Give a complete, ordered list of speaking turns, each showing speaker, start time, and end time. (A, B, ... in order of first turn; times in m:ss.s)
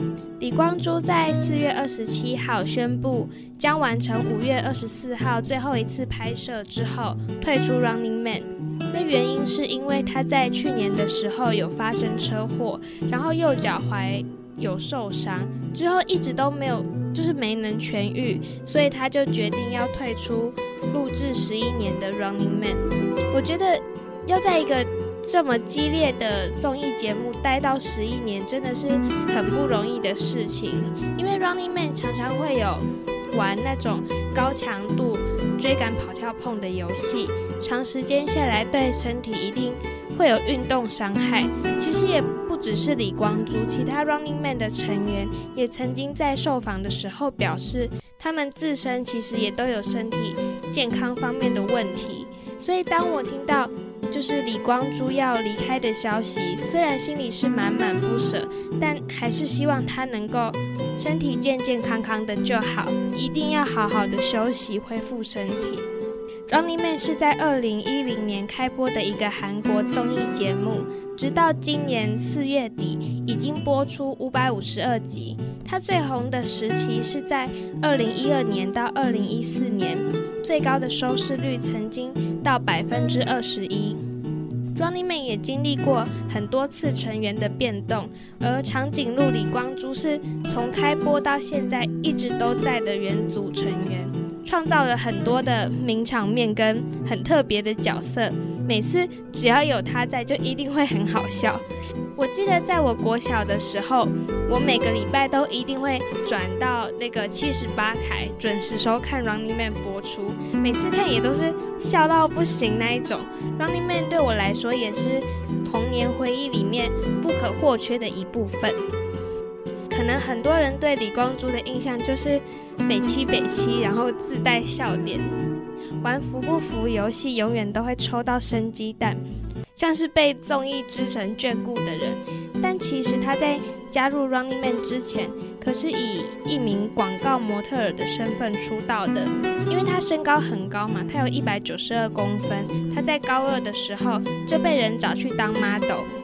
0:00.4-1:05.8 A
1:06.5-1:24.0 A
1:24.7-1:41.6 A
1:42.2-1:58.8 A
1:59.9-2:05.3 A
2:06.0-2:09.2 A
2:09.8-2:26.1 A